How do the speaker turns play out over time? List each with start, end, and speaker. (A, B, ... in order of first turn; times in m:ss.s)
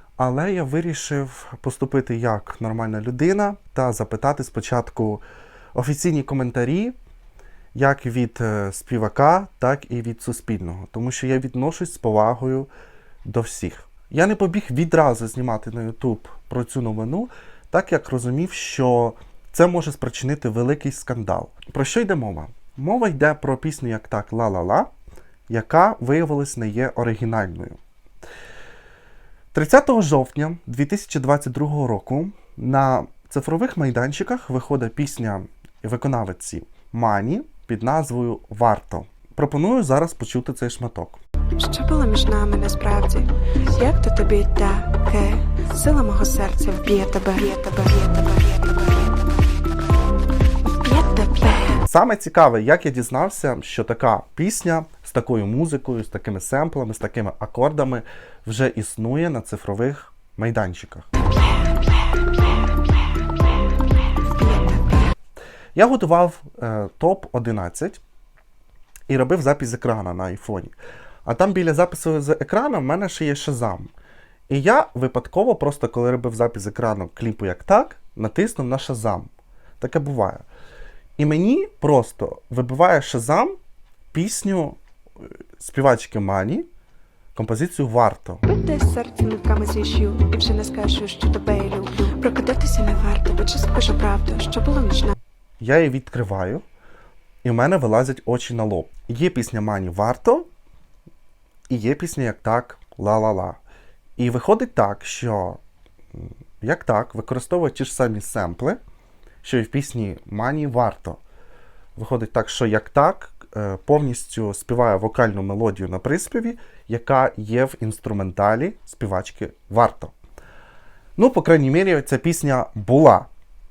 0:00.2-0:05.2 A
0:05.7-0:06.9 A
0:07.7-0:12.7 A
0:13.2-0:24.9 A
0:25.5-0:27.8 A
0:29.5-0:41.2 A
0:41.6-0:49.2 B
0:50.8-0:51.8 B
0:51.8-1:01.1 A
1:04.2-1:05.1 B
1:05.7-1:08.0 A
1:09.1-1:10.7 A
1:11.2-1:13.9 A
1:14.5-1:20.4 A
1:21.2-1:23.5 A
1:24.1-1:24.8 A
1:25.6-1:26.7 A
1:27.3-1:28.4 A
1:28.4-1:35.1 B
1:35.6-1:36.6 A
1:37.4-1:40.5 A
1:41.7-1:43.6 A
1:44.2-1:45.6 A
1:46.1-1:48.8 A
1:49.4-1:51.2 A
1:52.0-2:00.1 A
2:01.2-2:03.3 A